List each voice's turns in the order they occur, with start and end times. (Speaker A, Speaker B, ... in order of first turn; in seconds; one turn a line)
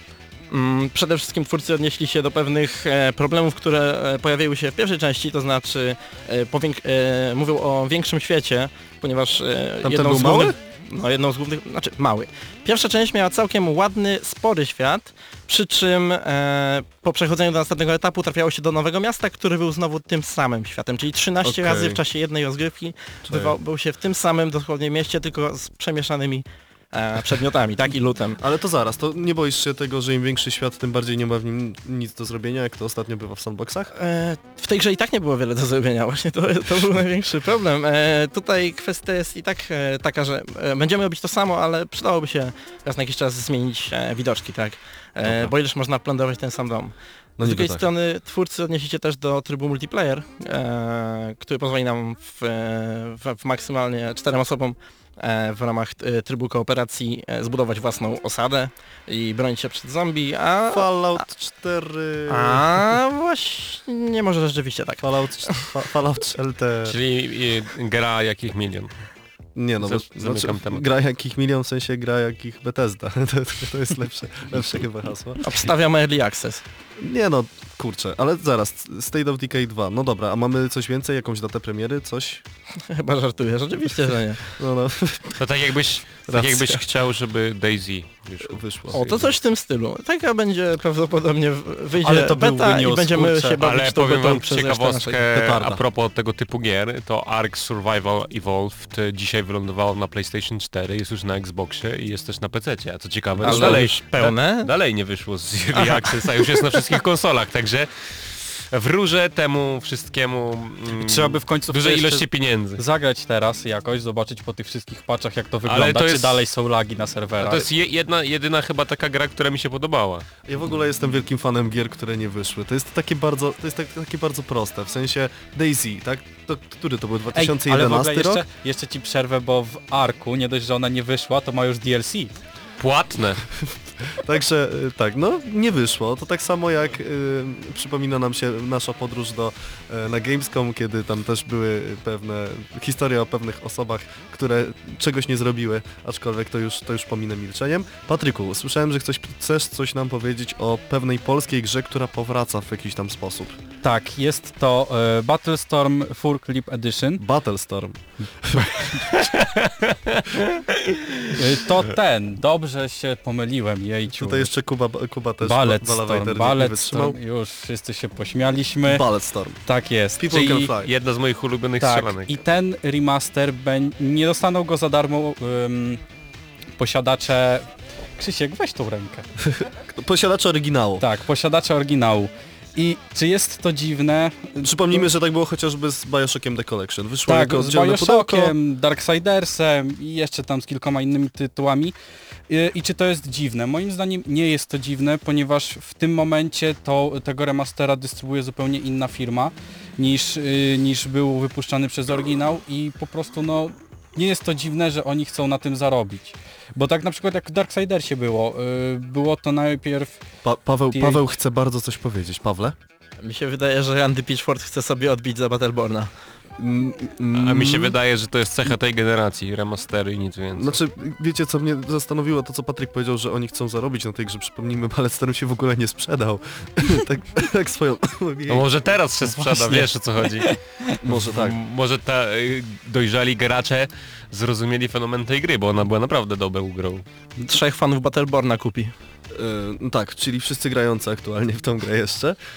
Speaker A: 0.5-28.4
Speaker B: 9.8-10.6
Speaker B: 21.4-22.0
Speaker B: 23.2-23.6
Speaker B: 28.4-33.9
Speaker A: 33.9-61.2
Speaker B: 45.2-45.5
Speaker B: 47.4-47.9
Speaker B: 60.7-62.9
Speaker A: 62.3-65.0
Speaker B: 65.0-67.0
Speaker C: 66.8-69.0
Speaker B: 69.5-75.4
Speaker C: 69.8-70.8
Speaker A: 75.4-76.6
Speaker B: 77.0-82.4
Speaker A: 82.9-84.5
Speaker B: 84.6-85.4
Speaker C: 85.4-89.3
Speaker B: 86.3-86.8
Speaker B: 88.4-89.0
Speaker A: 88.9-95.2
Speaker D: 92.0-93.6
Speaker C: 93.6-112.8
Speaker B: 95.3-95.8
Speaker A: 103.4-104.7
Speaker A: 105.7-107.0
Speaker D: 111.0-117.7
Speaker C: 115.7-116.4
Speaker C: 117.4-120.3
Speaker B: 120.5-128.4
Speaker D: 127.3-132.3
Speaker C: 132.8-133.4
Speaker B: 134.1-153.6
Speaker D: 153.8-157.2
Speaker B: 157.2-159.2
Speaker C: 159.2-161.3
Speaker D: 161.3-164.5
Speaker B: 164.1-167.2
Speaker D: 165.4-169.0
Speaker B: 168.8-169.6
Speaker D: 169.6-170.7
Speaker B: 170.2-170.9
Speaker C: 170.8-172.3
Speaker D: 171.8-176.0
Speaker D: 176.8-179.2
Speaker B: 179.4-181.0
Speaker D: 181.0-185.1
Speaker B: 184.6-188.5
Speaker D: 187.2-191.9
Speaker D: 192.5-210.2
Speaker B: 210.4-212.8
Speaker D: 210.9-211.2
Speaker A: 213.2-216.1
Speaker B: 216.6-218.0
Speaker C: 217.3-220.8
Speaker B: 220.6-228.7
Speaker C: 228.5-237.0
Speaker D: 229.3-229.9
Speaker B: 231.0-231.6
Speaker A: 237.4-238.9
Speaker B: 239.3-242.3